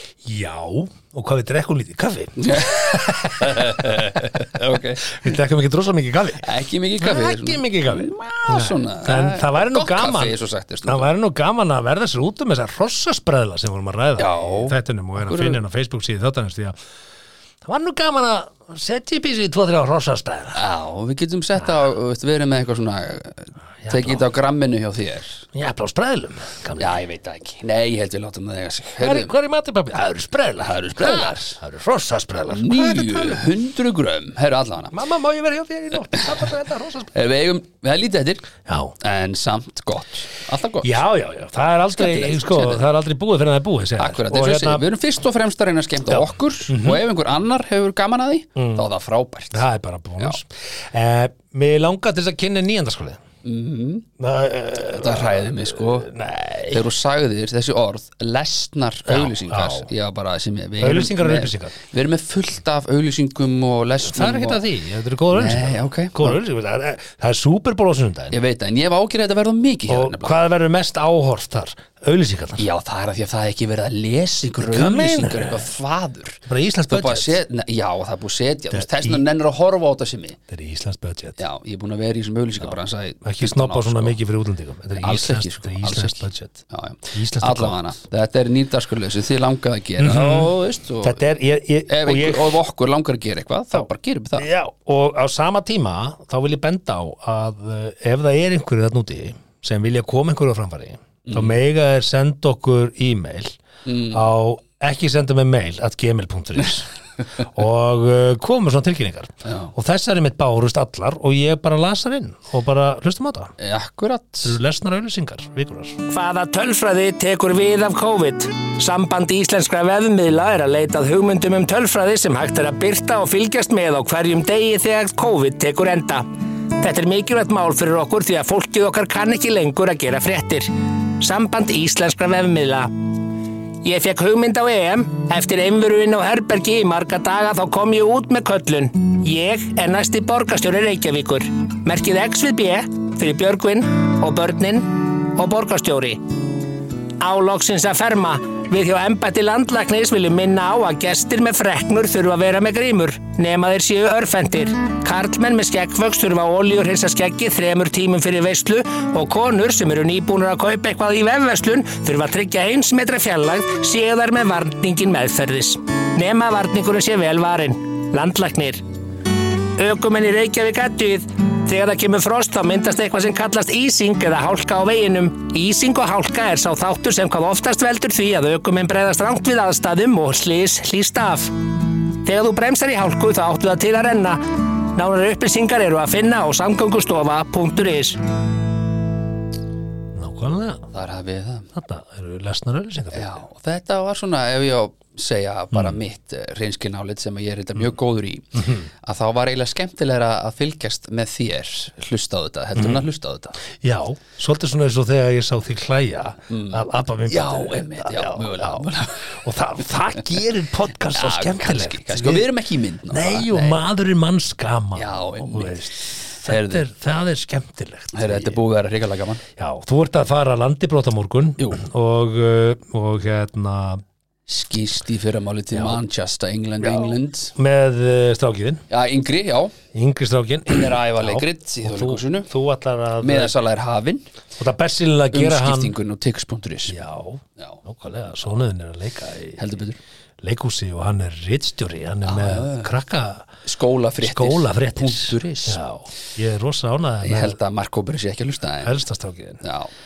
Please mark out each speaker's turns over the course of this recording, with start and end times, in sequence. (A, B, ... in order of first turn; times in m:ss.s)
0:00.2-0:04.4 A
0:02.4-0:05.3 B
0:05.1-0:06.4 A
0:06.4-0:11.1 B
0:07.0-0:16.8 A
0:14.2-0:15.6 B
0:17.6-0:20.6 A
0:20.6-0:25.5 B
0:23.8-0:24.2 A
0:25.5-0:27.0 A
0:26.8-0:29.3 B
0:29.0-0:33.5 A
0:30.6-0:31.6 B
0:32.5-0:34.9 B
0:34.9-0:37.1 A
0:37.1-0:38.5 B
0:38.7-0:39.0 A
0:39.0-0:41.1 B
0:40.8-0:44.8 A
0:42.0-0:42.8 B
0:44.0-0:49.6 B
0:46.1-0:47.0 A
0:48.6-0:48.8 A
0:49.5-0:53.2 A
0:53.4-0:54.1 B
0:54.2-0:56.8 A
0:54.8-0:56.1 B
0:56.7-1:04.6 B
0:59.1-0:59.9 A
1:00.8-1:01.8 A
1:04.1-1:08.4 A
1:05.3-1:06.4 B
1:08.3-1:10.3 B
1:09.9-1:12.6 A
1:12.6-1:20.4 B
1:14.6-1:15.7 A
1:16.5-1:17.4 A
1:18.7-1:19.2 A
1:20.5-1:21.4 A
1:21.4-1:24.2 B
1:22.6-1:26.6 A
1:25.0-1:31.2 B
1:27.1-1:27.9 A
1:30.0-1:30.5 A
1:31.0-1:32.6 A
1:31.9-1:34.5 B
1:33.7-1:43.6 A
1:41.3-1:41.6 B
1:43.9-1:44.2 B
1:44.1-1:53.5 A
1:49.4-1:49.7 B
1:53.6-1:54.6 B
1:54.4-1:56.0 A
1:56.1-2:06.3 C
2:06.8-2:12.9 C
2:13.8-2:26.2 C
2:27.2-2:48.8 C
2:49.8-3:01.6 C
3:02.2-3:08.2 C
3:10.1-3:10.9 A
3:10.9-3:11.7 B
3:11.7-3:13.4 A
3:13.1-3:23.6 B
3:18.6-3:18.9 A
3:22.8-3:23.1 A
3:23.8-3:32.5 A
3:26.5-3:29.2 B
3:31.2-3:33.9 B
3:33.1-3:38.6 A
3:35.0-3:35.8 B
3:36.4-3:36.8 B
3:38.1-3:39.4 B
3:39.6-3:44.0 A
3:44.5-3:47.6 B
3:45.7-3:46.0 A
3:46.8-3:48.8 A
3:48.9-3:49.7 B
3:49.9-3:53.6 A
3:50.7-3:52.5 B
3:53.2-3:54.2 B
3:54.6-3:56.0 A
3:55.3-3:57.0 B
3:56.9-3:59.6 A
3:59.6-4:00.0 B
4:00.4-4:03.5 A
4:02.2-4:02.9 B
4:03.6-4:05.8 B
4:04.2-4:07.6 A
4:07.2-4:09.0 B
4:08.8-4:09.6 A
4:09.6-4:09.9 B